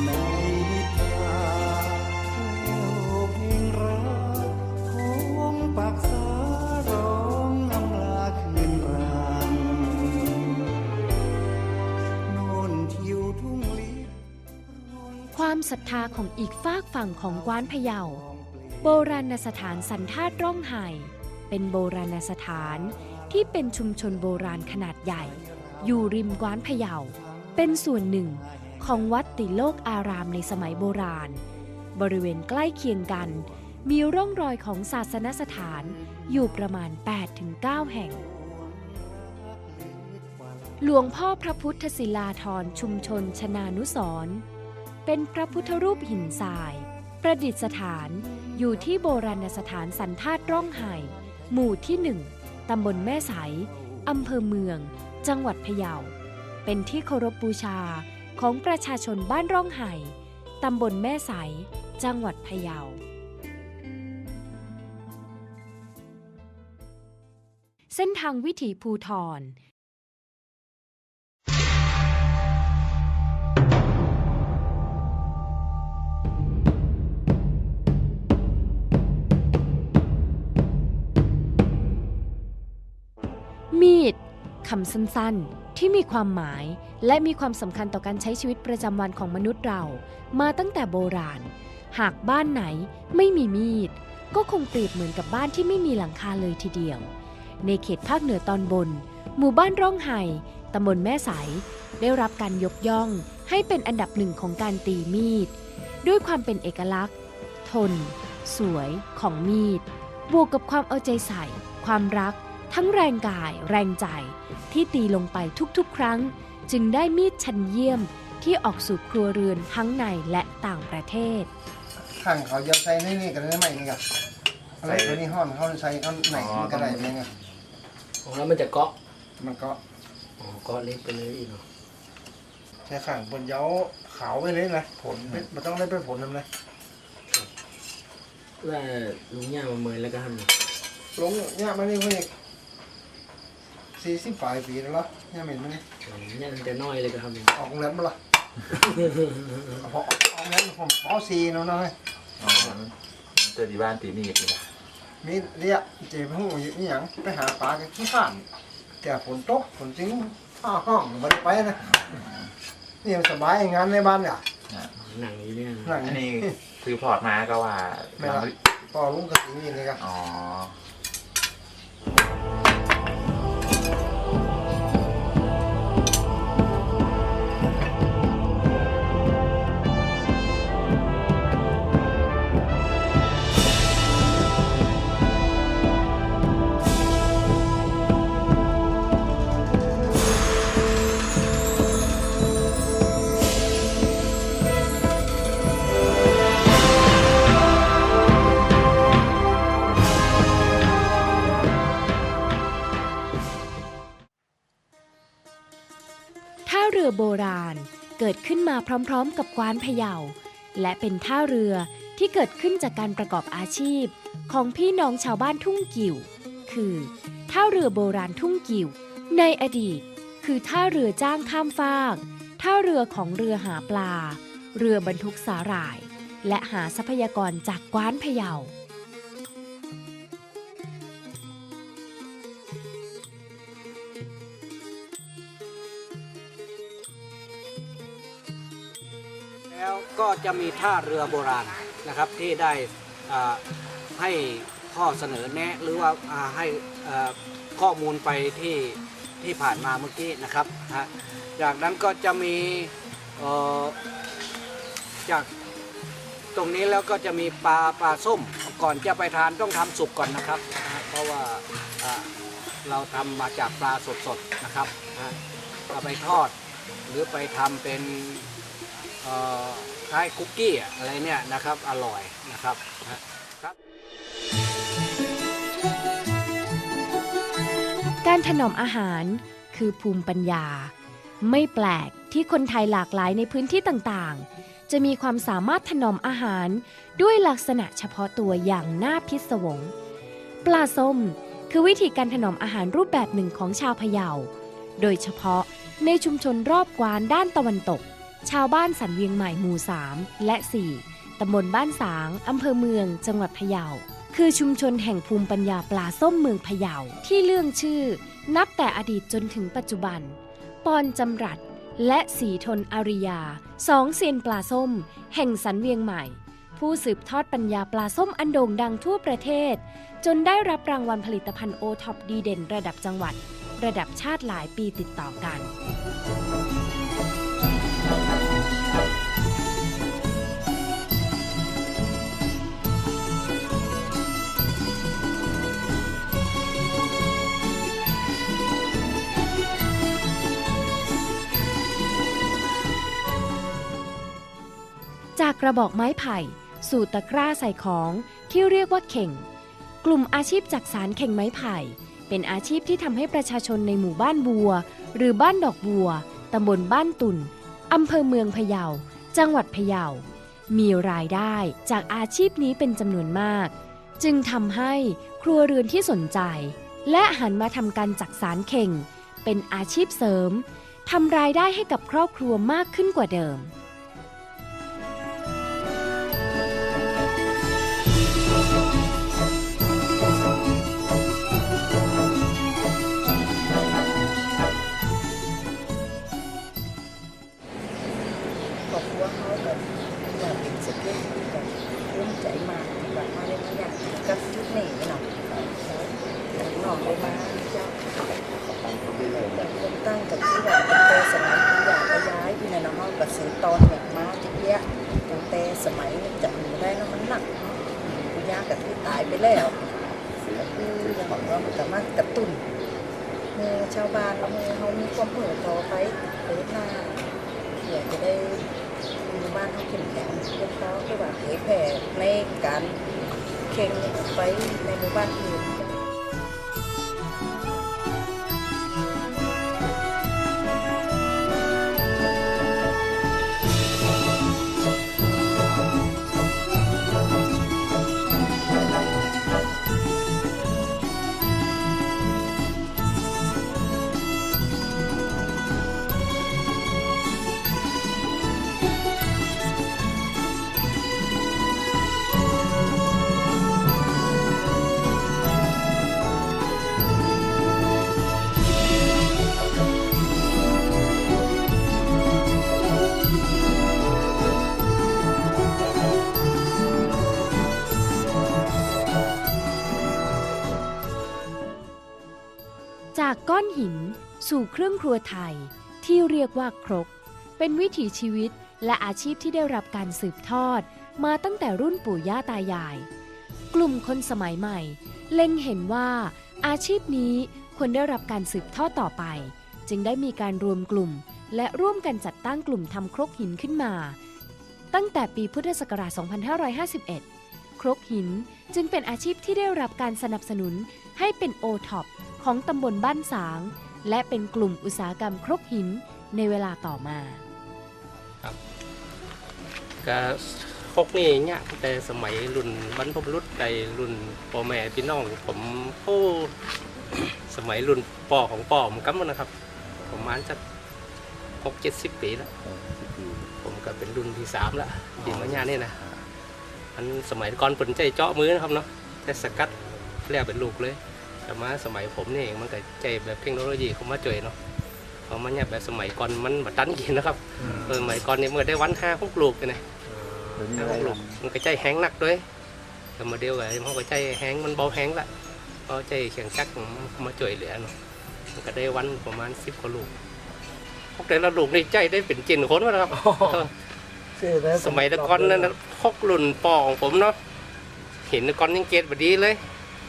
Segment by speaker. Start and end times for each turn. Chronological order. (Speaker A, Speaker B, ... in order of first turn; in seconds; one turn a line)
Speaker A: 15.3-18.2
Speaker A: 18.8-31.4
Speaker A: 31.9-38.2
Speaker A: 40.8-44.4
Speaker A: 45.0-56.1
Speaker A: 56.6-63.0
Speaker A: 67.9-69.5
Speaker A: 83.7-97.1
Speaker A: 97.6-105.5
Speaker A: 106.0-107.1
Speaker A: 107.6-121.5
Speaker B: 122.2-124.0
Speaker B: 124.8-127.3
Speaker C: 124.8-125.3
Speaker C: 126.3-127.2
Speaker D: 128.2-128.9
Speaker B: 129.4-129.8
Speaker D: 130.4-131.6
Speaker B: 132.9-136.5
Speaker C: 135.1-135.4
Speaker D: 138.6-140.5
Speaker B: 141.2-142.3
Speaker B: 144.0-145.8
Speaker D: 146.0-147.5
Speaker B: 147.5-148.2
Speaker D: 148.8-149.5
Speaker B: 149.8-151.9
Speaker C: 152.4-154.7
Speaker B: 155.2-158.4
Speaker B: 159.0-161.8
Speaker C: 161.8-162.5
Speaker B: 163.0-164.4
Speaker C: 164.7-165.0
Speaker D: 165.0-166.1
Speaker B: 165.8-166.5
Speaker C: 166.0-168.5
Speaker B: 168.2-170.0
Speaker C: 170.0-170.7
Speaker A: 206.7-228.7
Speaker E: 239.7-243.6
Speaker E: 244.1-254.0
Speaker E: 256.5-262.3
Speaker E: 262.8-265.4
Speaker E: 265.9-266.5
Speaker E: 267.1-268.5
Speaker E: 269.2-273.7
Speaker A: 278.2-289.9
Speaker A: 290.6-325.7
Speaker A: 345.4-349.4
Speaker A: 350.0-373.7
Speaker F: 388.9-398.0
Speaker C: 396.8-397.5
Speaker C: 398.8-399.4
Speaker F: 399.3-409.8
Speaker F: 410.6-412.6
Speaker F: 413.5-418.7
Speaker F: 419.2-423.0
Speaker F: 423.7-426.0
Speaker A: 473.1-483.1
Speaker A: 483.7-494.2
Speaker A: 494.9-497.2
Speaker A: 497.8-507.4
Speaker G: 510.0-516.5
Speaker G: 517.4-519.5
Speaker C: 519.9-520.4
Speaker G: 520.1-520.6
Speaker G: 521.6-522.5
Speaker C: 522.6-523.5
Speaker G: 523.6-526.0
Speaker C: 525.2-526.2
Speaker G: 527.0-529.7
Speaker G: 530.2-534.5
Speaker G: 535.3-539.8
Speaker C: 537.6-538.1
Speaker D: 540.1-540.7
Speaker C: 540.5-541.4
Speaker G: 540.7-542.5
Speaker G: 543.2-545.3
Speaker G: 545.9-547.9
Speaker G: 548.5-550.1
Speaker G: 551.1-553.7
Speaker D: 553.1-553.7
Speaker D: 554.4-555.8
Speaker G: 554.7-557.4
Speaker G: 558.3-559.6